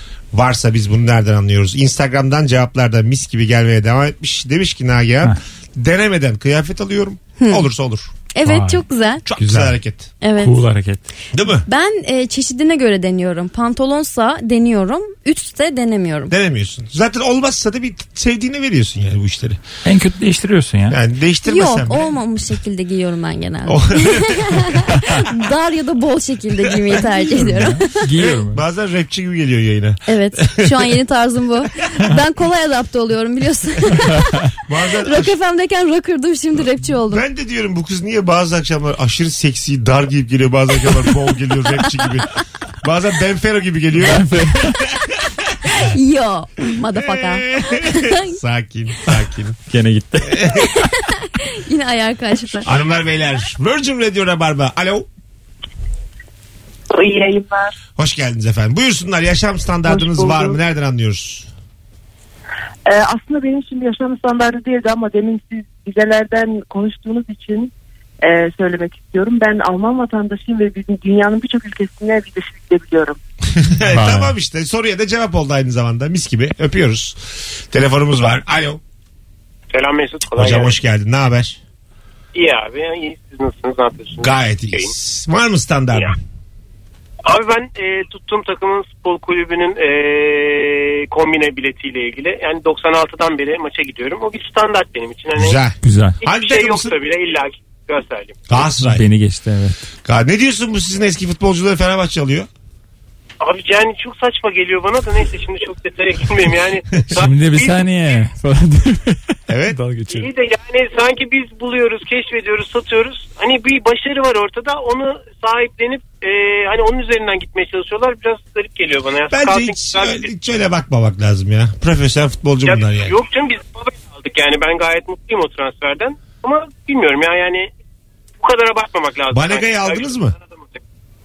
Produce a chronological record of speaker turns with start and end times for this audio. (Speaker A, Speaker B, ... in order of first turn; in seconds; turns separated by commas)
Speaker A: 0.3-8.1, Speaker B: 7.4-7.7, Speaker B: 8.3-9.2, Speaker C: 8.4-8.8, Speaker A: 9.3-10.1, Speaker C: 9.4-9.8, Speaker B: 10.2-10.6, Speaker C: 10.4-11.0, Speaker A: 11.3-11.7, Speaker B: 11.7-16.3, Speaker A: 16.3-19.6, Speaker C: 19.9-21.0, Speaker A: 20.9-22.1, Speaker B: 21.5-28.0, Speaker A: 23.7-24.8, Speaker C: 27.3-28.6, Speaker A: 28.1-30.9, Speaker B: 30.1-34.3, Speaker A: 34.7-35.4, Speaker B: 35.0-37.2, Speaker A: 37.1-42.3, Speaker A: 42.8-45.4, Speaker C: 44.0-44.8, Speaker B: 45.7-48.4, Speaker A: 46.9-49.6, Speaker C: 49.7-50.5, Speaker A: 50.2-50.7, Speaker B: 50.8-52.7, Speaker A: 52.6-55.1, Speaker D: 56.9-57.8, Speaker A: 58.0-61.5, Speaker D: 59.9-60.6, Speaker D: 62.9-67.7, Speaker D: 68.2-73.2, Speaker A: 73.6-78.8, Speaker C: 73.9-74.3, Speaker E: 79.7-80.7, Speaker A: 80.4-81.6, Speaker E: 82.3-84.9, Speaker A: 84.2-86.2, Speaker E: 87.2-95.6, Speaker A: 95.3-96.9, Speaker C: 95.8-96.2, Speaker E: 96.2-98.4, Speaker A: 98.5-99.1, Speaker C: 98.8-99.8, Speaker A: 100.0-102.5, Speaker E: 103.4-108.2, Speaker C: 107.1-110.3, Speaker A: 109.5-109.8, Speaker E: 110.1-120.3, Speaker A: 119.3-123.2, Speaker E: 122.7-127.7, Speaker E: 128.4-130.7, Speaker A: 129.3-130.3